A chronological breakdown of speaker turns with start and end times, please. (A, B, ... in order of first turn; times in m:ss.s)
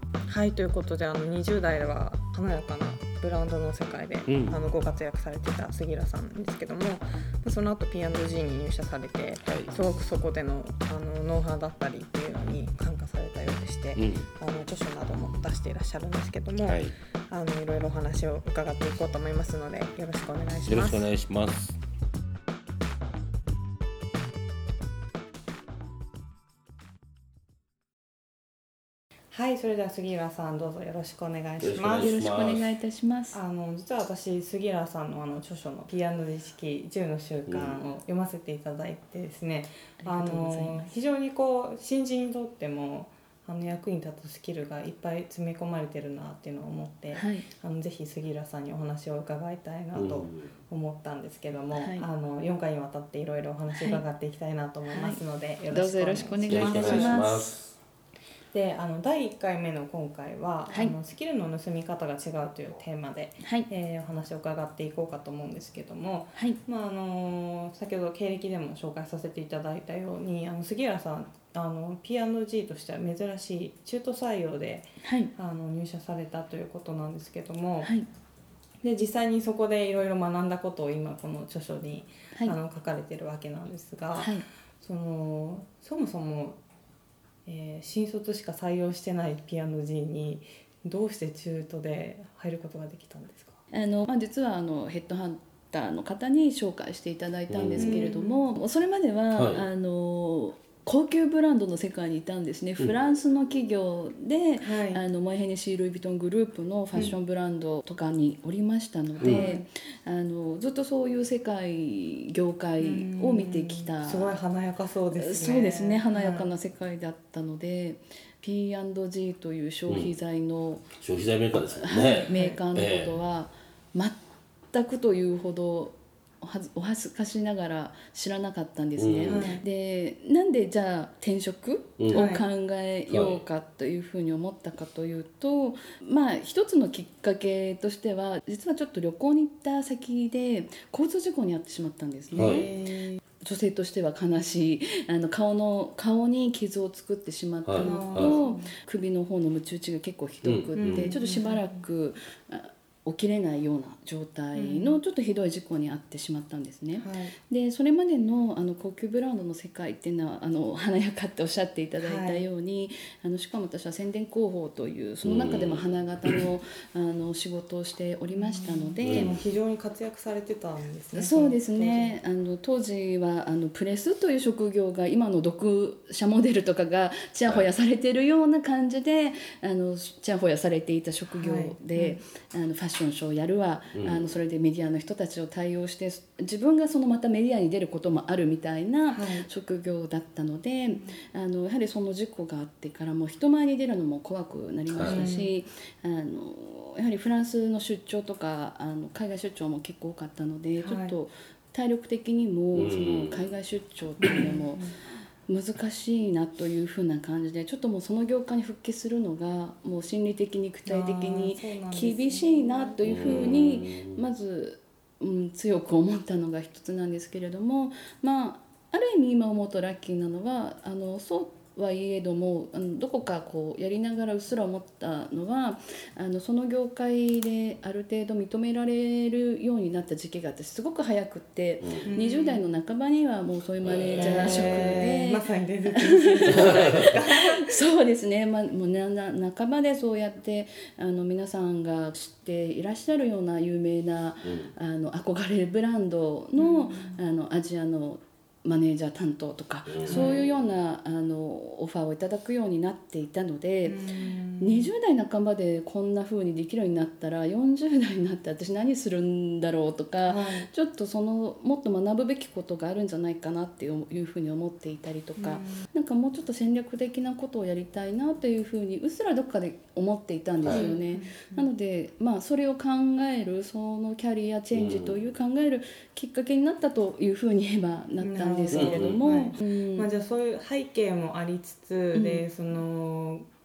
0:00.3-0:21.1 A
0:04.3-0:04.5 B
0:09.4-0:09.7 B
0:14.0-0:14.3 B
0:16.6-0:16.9 B
0:20.6-0:21.8 B
0:29.3-0:32.1 A
0:31.6-0:32.7 B
0:32.0-0:33.4 C
0:33.3-0:57.3 A
0:37.5-0:37.8 B
0:40.0-0:40.9 C
0:47.1-0:47.5 C
0:49.9-0:50.4 B
0:51.8-0:52.0 C
0:53.7-0:54.0 C
0:54.9-0:57.5 C
0:56.5-0:57.8 B
0:58.5-1:17.9 A
1:03.4-1:03.7 C
1:15.0-1:15.3 C
1:17.8-1:18.1 C
1:18.8-1:26.6 A
1:24.1-1:24.4 C
1:27.4-1:33.6 A
1:33.7-1:54.4 C
1:37.5-1:38.1 B
1:37.8-1:38.4 A
1:39.3-1:39.7 B
1:44.6-1:45.0 A
1:49.2-1:49.6 A
1:49.2-1:49.5 B
1:52.8-1:56.5 A
1:55.1-2:00.9 C
1:59.9-2:00.1 B
2:01.0-2:03.2 B
2:01.8-2:04.2 C
2:02.3-2:02.6 A
2:04.7-2:22.7 C
2:09.0-2:09.5 B
2:09.2-2:09.6 A
2:12.0-2:12.3 B
2:12.1-2:12.4 A
2:13.1-2:13.4 B
2:22.3-2:22.7 B
2:22.4-2:23.2 A
2:23.4-2:49.4 C
2:27.7-2:28.4 B
2:27.8-2:28.7 A
2:30.4-2:31.1 B
2:30.7-2:31.7 A
2:34.5-2:35.0 A
2:37.0-2:37.3 A
2:42.0-2:42.4 A
2:45.2-2:46.4 B
2:48.3-2:52.2 A
2:49.0-2:49.3 B
2:51.1-3:24.8 C
3:01.4-3:02.2 A
3:03.9-3:04.3 B
3:09.1-3:09.5 A
3:10.9-3:11.2 A
3:14.9-3:15.3 B
3:15.0-3:15.5 A
3:20.8-3:21.2 A
3:22.7-3:23.5 B
3:24.2-3:24.9 A
3:25.5-3:55.4 C
3:30.8-3:33.4 A
3:33.0-3:34.2 B
3:51.8-3:52.1 B
3:52.1-3:52.6 A
3:53.8-3:54.9 B
3:54.2-3:57.7 A
3:55.9-3:57.1 C
3:57.6-4:14.0 C
4:04.4-4:04.7 B
4:06.6-4:07.2 A
4:09.9-4:10.6 B
4:10.0-4:10.4 A
4:13.8-4:14.9 A
4:14.6-4:40.1 C
4:20.2-4:20.7 A
4:25.4-4:25.8 A
4:30.6-4:30.9 B
4:30.7-4:31.7 A
4:34.7-4:35.2 B
4:38.2-4:43.5 A
4:38.7-4:39.4 B
4:42.1-4:42.4 C